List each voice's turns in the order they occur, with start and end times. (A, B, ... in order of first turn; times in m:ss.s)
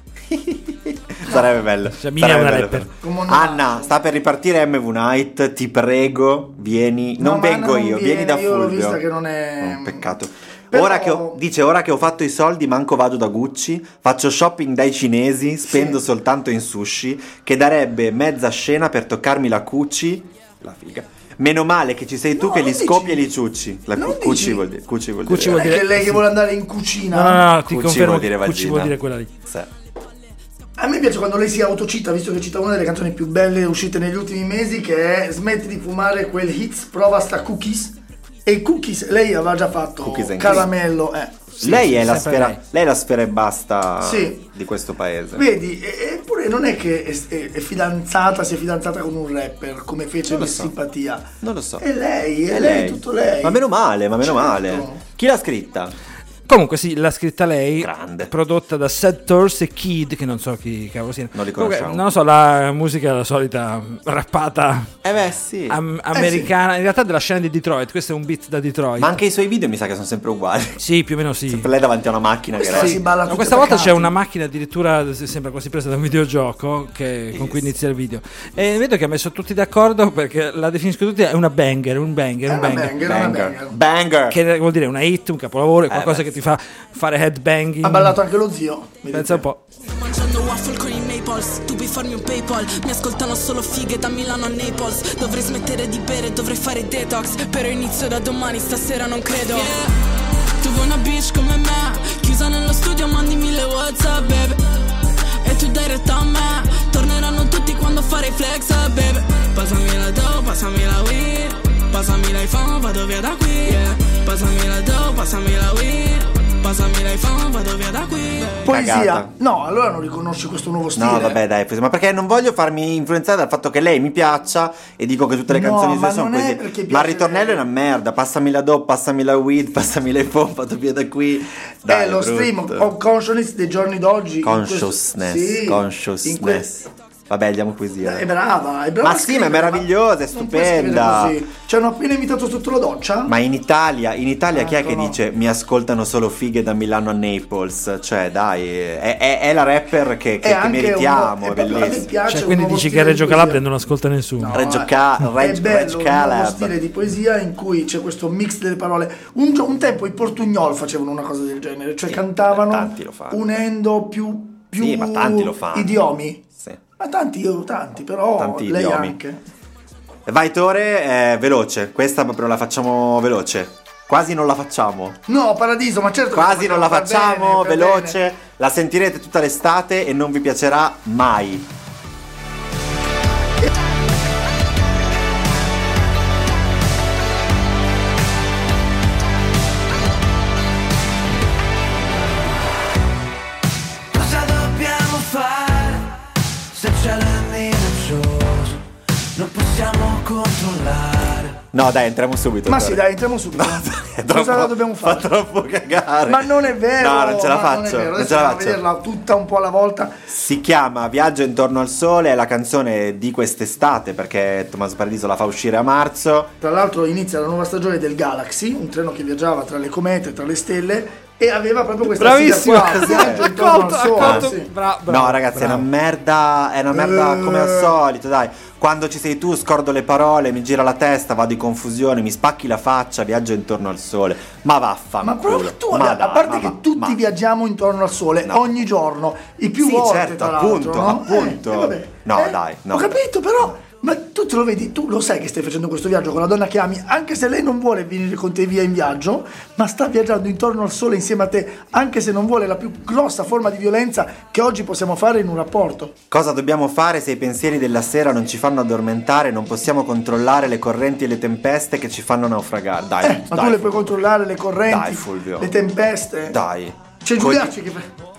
0:00.3-0:09.0 A
0:02.0-0:02.9 B
0:03.0-0:03.9 C
0:07.2-0:10.1 C
0:09.6-0:25.8 A
0:10.7-0:11.4 C
0:15.6-0:16.0 C
0:22.3-0:23.2 C
0:24.0-0:24.6 C
0:25.2-0:26.3 B
0:25.5-0:27.5 C
0:27.1-0:29.3 B
0:27.7-0:29.0 A
0:30.8-0:41.4 C
0:40.0-0:40.7 A
0:41.6-0:42.6 B
0:41.6-0:45.5 A
0:44.0-0:44.4 C
0:45.3-0:53.6 C
0:50.3-0:50.7 A
0:51.4-0:51.8 A
0:52.5-0:55.9 A
0:54.2-0:55.0 C
0:56.5-1:04.9 B
0:57.8-0:58.3 A
1:01.3-1:02.0 A
1:05.0-1:05.8 A
1:05.7-1:09.2 B
1:06.1-1:06.5 C
1:09.0-1:10.8 A
1:10.8-1:11.7 B
1:11.5-1:13.0 A
1:12.5-1:14.1 C
1:12.7-1:23.0 B
1:17.3-1:17.7 A
1:22.4-1:23.8 C
1:23.0-1:24.4 A
1:24.3-1:28.2 B
1:25.9-1:26.4 A
1:27.8-1:29.4 C
1:29.1-1:29.6 B
1:29.8-1:39.9 D
1:40.6-1:44.6 D
1:45.4-1:58.6 D
1:58.6-2:01.4 C
1:58.7-1:59.3 A
2:01.0-2:12.9 A
2:05.5-2:07.6 C
2:11.9-2:16.7 C
2:14.4-2:18.3 A
2:18.0-2:23.3 C
2:19.0-2:21.4 A
2:23.2-2:32.1 A
2:24.5-2:25.2 C
2:30.4-2:33.6 C
2:32.3-2:34.6 B
2:34.4-2:46.4 C
2:34.5-2:36.8 A
2:42.0-2:43.6 A
2:44.8-2:46.0 A
2:47.0-2:49.4 C
2:48.4-2:49.2 A
2:50.2-2:55.2 A
2:55.3-2:58.2 C
2:56.3-3:01.7 A
3:14.1-3:18.8 E
3:19.4-3:21.6 E
3:21.7-3:28.8 A
3:22.6-3:25.3 C
3:26.3-3:30.2 C
3:30.3-3:36.5 A
3:36.6-3:44.7 C
3:42.2-3:45.9 B
3:42.9-3:43.5 A
3:44.2-3:44.5 A
3:45.1-3:57.2 A
3:46.9-3:48.0 C
3:55.2-4:16.1 C
3:58.4-3:58.8 A
3:59.8-4:03.8 A
4:16.3-4:24.2 A
4:23.2-4:26.6 C
4:24.8-4:25.7 A
4:26.5-4:27.7 A
4:27.2-4:28.1 C